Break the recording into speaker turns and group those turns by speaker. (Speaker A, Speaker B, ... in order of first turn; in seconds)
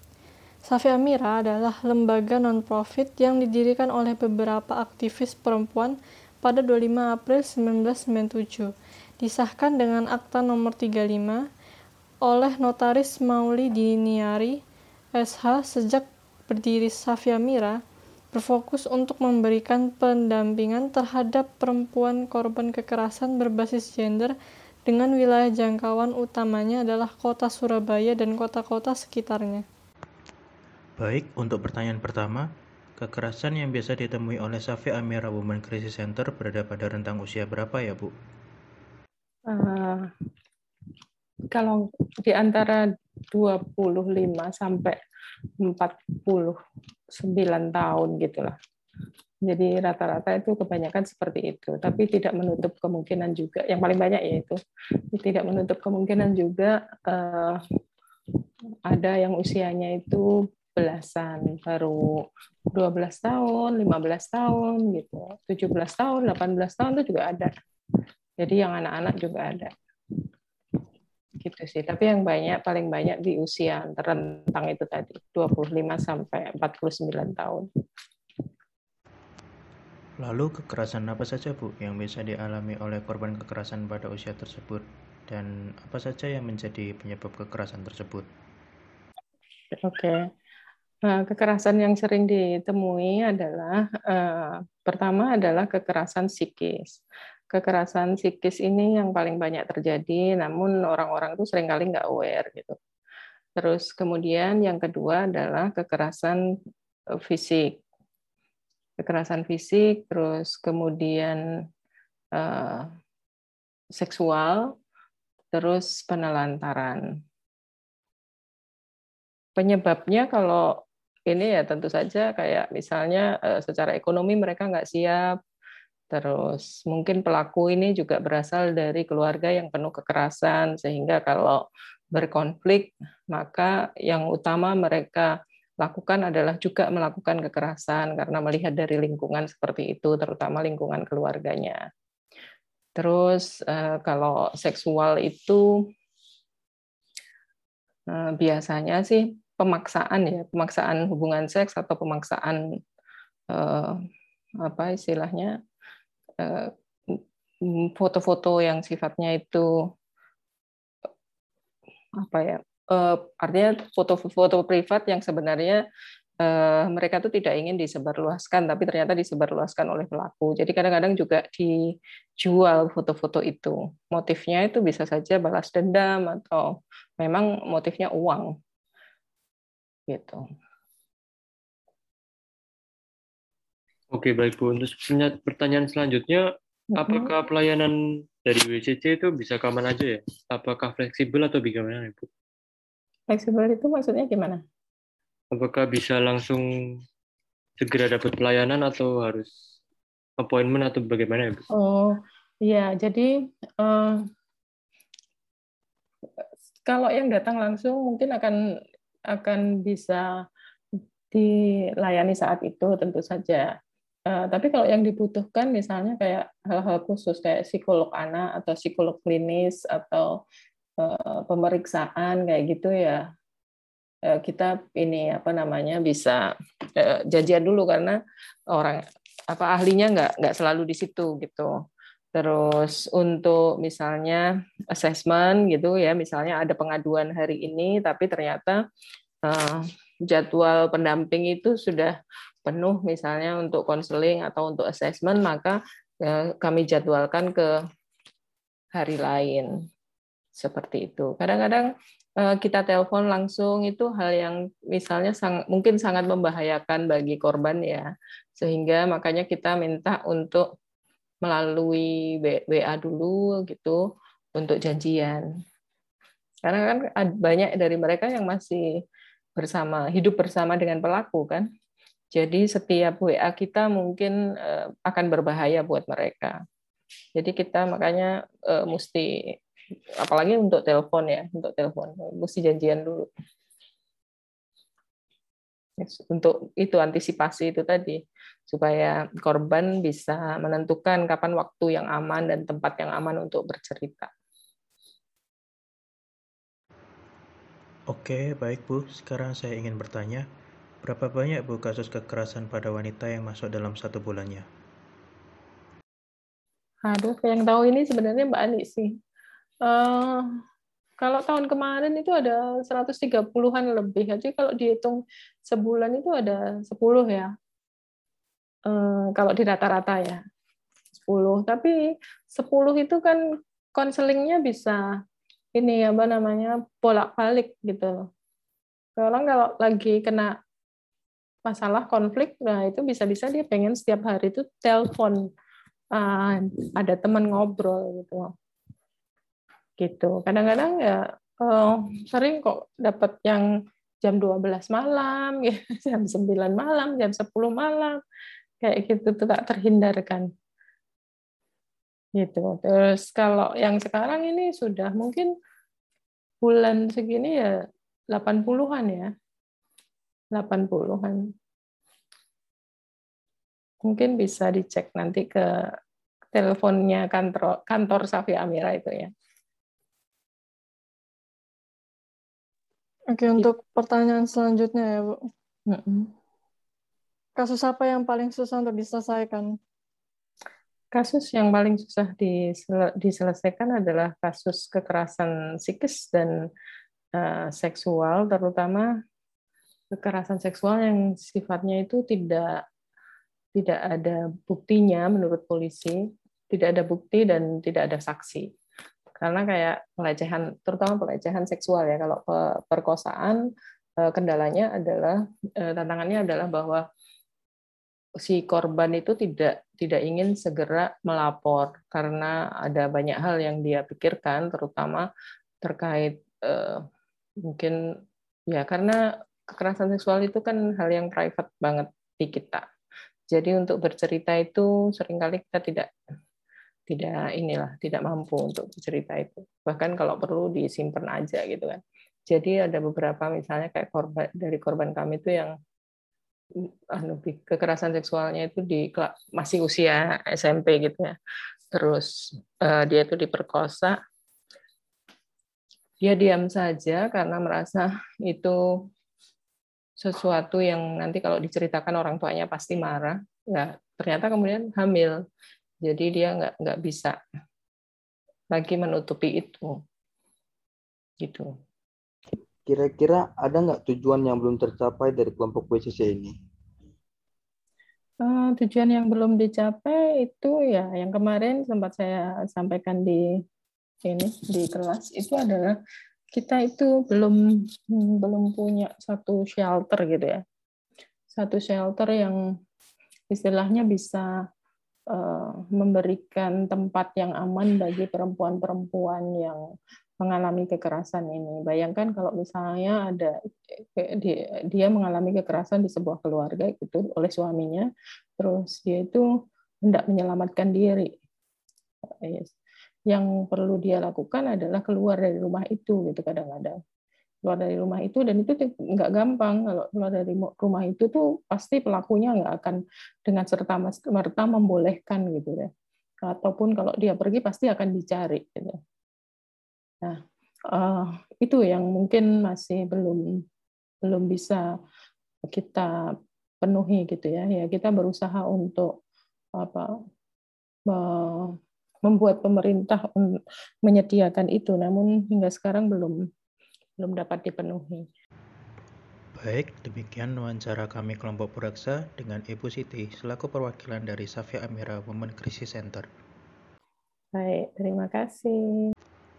Speaker A: 0.7-11.4, 12.2-14.6, 15.2-17.8, 18.3-24.3, 24.9-29.6, 373.3-375.4, 377.6-379.7
Speaker B: 31.0-32.5, 33.0-38.1, 80.2-88.3, 298.1-300.5, 301.0-304.7, 539.5-546.3
Speaker C: 39.5-40.0, 41.5-45.0, 45.6-46.5, 47.1-48.5, 49.5-54.6, 55.1-57.6, 58.9-62.2, 62.7-67.5, 68.4-69.7, 71.4-77.7, 89.8-90.2, 91.1-97.0, 97.5-102.8, 103.6-106.4, 107.3-107.8, 109.0-111.4, 112.4-112.8, 114.0-114.6, 115.5-117.0, 119.6-120.7, 121.3-125.2, 126.1-131.6, 132.2-135.3, 135.8-141.8, 143.0-145.6, 148.1-152.6, 153.5-153.9, 154.6-155.5, 156.4-157.2, 157.9-159.7, 162.2-165.8, 166.4-171.7, 172.4-178.5, 180.1-180.4, 187.0-187.3, 193.3-194.6, 201.8-203.3, 203.8-204.2, 206.9-208.5, 209.3-210.2, 212.0-213.7, 214.3-220.3, 221.0-223.2, 224.3-226.4, 227.0-228.2, 228.7-229.0, 229.5-231.7, 232.3-238.8, 239.5-247.7, 248.9-249.7, 250.6-260.6, 261.4-264.0, 264.6-265.4, 266.6-268.8, 269.6-271.7, 272.3-276.6, 277.4-279.3, 280.2-283.3, 286.0-288.2, 288.7-294.3, 307.1-309.1, 309.9-310.4, 311.2-317.5, 318.9-320.4, 321.2-322.0, 322.5-323.4, 324.0-325.0, 325.8-328.1, 329.2-330.5, 331.6-335.4, 336.1-338.5, 340.0-343.6, 344.2-348.2, 348.8-350.5, 352.4-355.5, 356.6-357.7, 358.3-359.3, 360.6-361.4, 364.0-365.8, 366.5-369.3, 375.9-376.3, 381.1-386.5, 387.4-389.1, 390.1-392.8, 393.8-396.2, 396.7-398.7, 399.4-403.6, 404.2-407.0, 408.4-415.2, 415.8-417.0, 417.7-418.0, 418.7-419.2, 419.7-422.8, 423.5-426.1, 427.1-435.7, 437.2-441.4, 441.9-442.3, 442.8-444.2, 446.2-448.8, 450.2-455.4, 456.1-457.4, 458.7-459.9, 461.4-461.7, 468.4-473.4, 474.2-475.9, 476.6-477.6, 478.1-480.6, 481.5-482.6, 483.5-484.5, 485.3-489.8, 490.4-498.1, 498.6-499.4, 500.0-501.3, 502.4-502.7, 503.3-507.0, 507.6-515.9, 516.4-519.0, 520.9-523.4, 524.3-524.9, 525.7-526.1, 526.8-529.1, 529.8-530.1, 531.1-531.7, 532.2-533.5, 534.0-536.4, 537.2-538.3, 547.6-548.8
Speaker D: 184.1-187.9, 188.5-192.3, 195.5-196.7, 197.8-199.5, 200.4-201.6
Speaker E: 462.9-466.5